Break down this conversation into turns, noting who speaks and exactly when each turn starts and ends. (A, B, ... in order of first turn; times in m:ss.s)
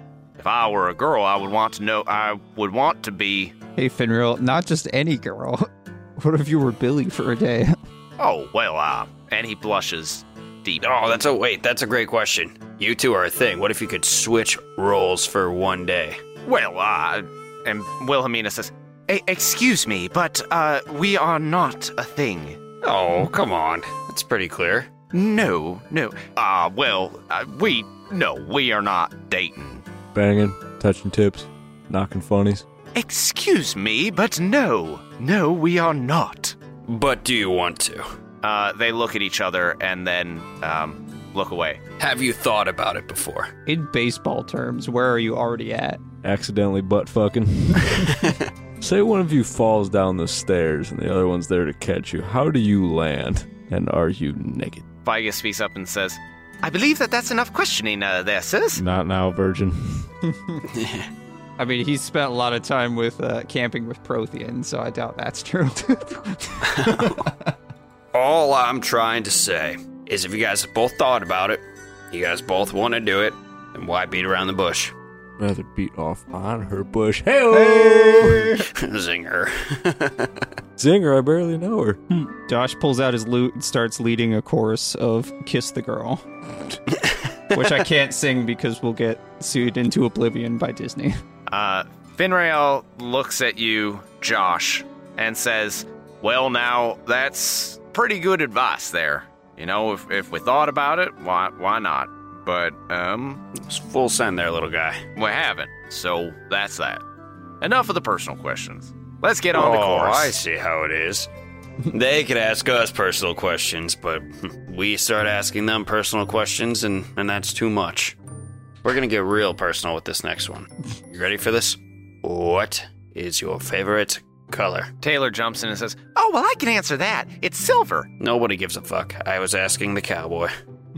0:00.4-0:03.5 A
0:03.8-0:07.8 B
0:08.2-0:10.9 A
0:10.8-0:16.2 C
0:16.4-0:22.6 A
0:22.8-0:24.9 C
0:25.1-0:29.8 A
0:30.1-0:32.6 D
0:32.9-0:36.6 A
0:36.9-0:38.0 C
0:38.4-0:41.8 A
0:42.0-0:43.5 C
0:43.6-0:46.0 B
0:46.2-0:54.9 D
0:55.0-0:58.8 A
0:58.7-1:00.1 D
1:00.3-1:00.6 B
1:00.6-1:01.1 C
1:01.6-1:07.5 B
1:06.6-1:07.3 C
1:08.1-1:14.9 C
1:15.4-1:18.6 D
1:17.7-1:18.5 B
1:18.6-1:20.5 C
1:20.8-1:22.0 D
1:22.4-1:26.2 B
1:27.0-1:27.6 C
1:27.5-1:31.2 B
1:31.5-1:43.4 A
1:43.5-1:45.0 C
1:45.1-1:47.0 A
1:47.6-1:50.4 A
1:49.5-1:51.3 C
1:51.8-1:58.2 C
1:58.8-2:04.9 C
2:05.0-2:08.1 A
2:08.2-2:10.5 C